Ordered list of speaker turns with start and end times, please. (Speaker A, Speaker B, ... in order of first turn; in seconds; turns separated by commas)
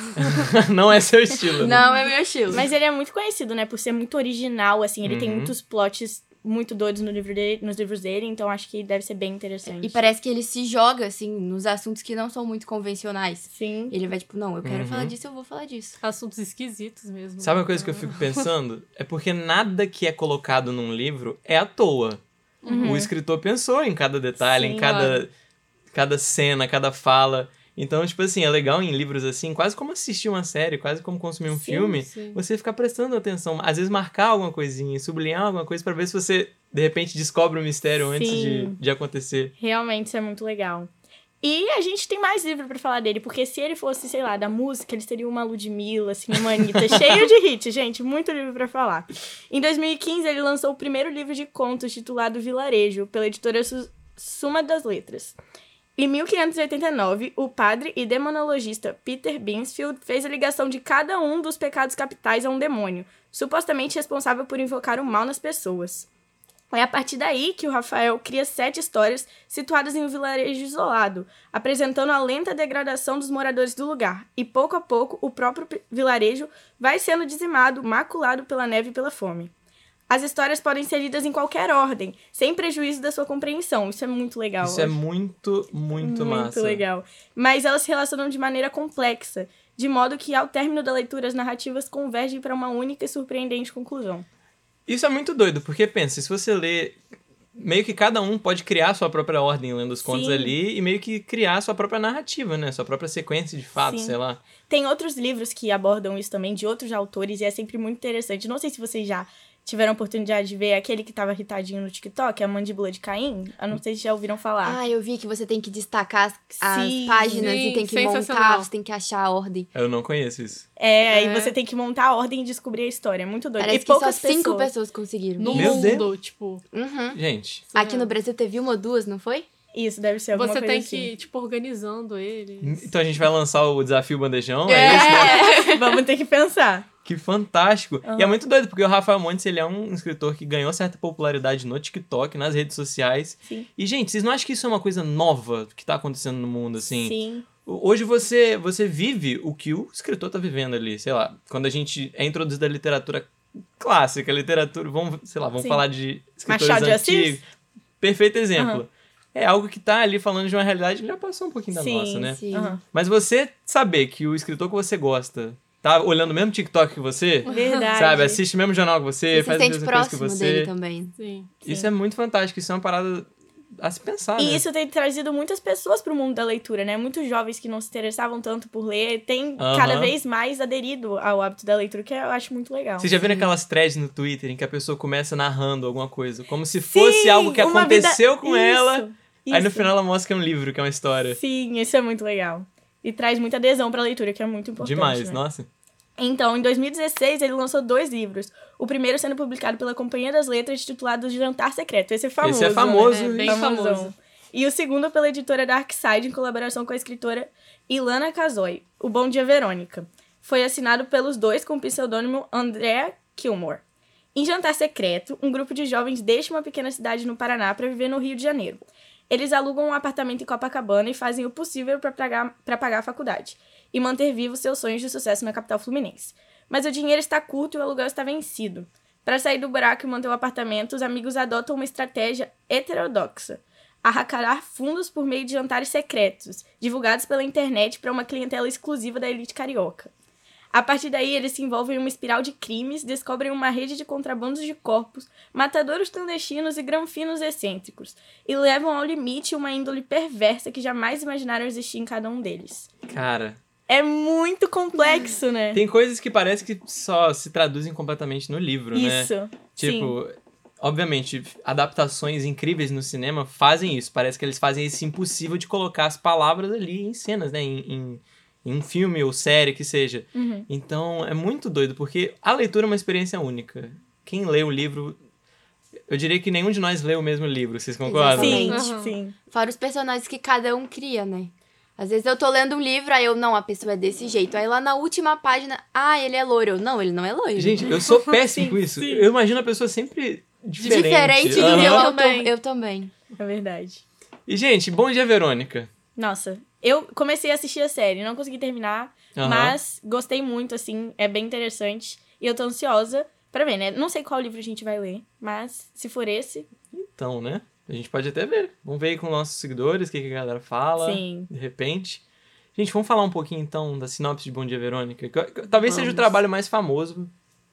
Speaker A: 0.2-1.9, Speaker B: 1.6-2.7, Speaker C: 2.5-10.0, Speaker A: 5.0-5.5, Speaker B: 9.7-16.0, Speaker C: 13.5-13.9, Speaker A: 14.6-15.1, Speaker D: 16.0-18.5, Speaker A: 17.4-22.2, Speaker D: 22.6-23.0, Speaker C: 22.6-23.1, Speaker A: 22.8-25.3, Speaker C: 24.4-25.2, Speaker A: 25.9-39.5, Speaker C: 31.6-31.9, Speaker D: 31.9-32.4, Speaker C: 38.0-38.8, Speaker C: 39.6-40.9, Speaker C: 41.4-55.4, Speaker C: 56.0-66.1, Speaker C: 66.7-79.5, Speaker C: 80.1-85.0, Speaker A: 84.6-86.8, Speaker C: 86.0-94.2, Speaker A: 94.9-97.0, Speaker A: 97.5-104.4, Speaker C: 100.0-100.5, Speaker C: 103.8-104.2, Speaker C: 104.7-114.8, Speaker B: 114.6-119.7, Speaker C: 116.7-117.5, Speaker D: 117.4-118.7, Speaker A: 119.7-120.7, Speaker C: 120.8-124.7, Speaker D: 121.1-121.5, Speaker B: 123.6-125.9, Speaker D: 125.4-126.6, Speaker A: 125.5-126.1, Speaker B: 126.7-127.2, Speaker A: 127.1-127.7, Speaker D: 127.7-128.1, Speaker B: 127.8-129.5, Speaker C: 129.7-131.1, Speaker D: 130.3-132.8, Speaker A: 132.6-135.4, Speaker B: 134.7-135.7, Speaker C: 134.8-136.9, Speaker A: 137.1-157.4, Speaker C: 138.1-138.4, Speaker C: 147.0-147.4, Speaker C: 155.6-155.8, Speaker C: 156.5-157.4, Speaker A: 158.0-170.7, Speaker C: 158.6-158.8, Speaker C: 161.7-162.8, Speaker B: 162.4-162.8, Speaker C: 167.5-168.4, Speaker D: 167.5-167.9, Speaker B: 169.3-171.2, Speaker D: 171.2-171.6, Speaker A: 171.7-174.6, Speaker C: 174.4-183.5, Speaker A: 179.6-180.1, Speaker A: 183.0-191.4, Speaker C: 186.9-189.9, Speaker C: 191.3-195.4, Speaker A: 194.8-195.7, Speaker C: 196.2-213.8, Speaker A: 202.4-203.7, Speaker D: 203.2-204.1, Speaker C: 214.3-240.1, Speaker C: 240.7-252.9, Speaker A: 253.1-253.6, Speaker C: 253.9-255.8, Speaker A: 255.7-275.2, Speaker C: 258.9-260.2, Speaker C: 270.3-270.7, Speaker A: 276.1-278.6, Speaker B: 278.0-278.9, Speaker C: 278.3-279.4, Speaker D: 278.7-279.2, Speaker B: 279.5-287.9, Speaker A: 287.6-292.1, Speaker C: 288.5-289.2, Speaker D: 290.8-292.5, Speaker B: 290.8-293.1, Speaker C: 293.4-294.0, Speaker A: 294.5-295.9, Speaker C: 296.2-306.7, Speaker A: 299.4-299.8, Speaker A: 306.9-312.2, Speaker C: 311.0-311.5, Speaker A: 312.8-317.3, Speaker B: 315.9-316.4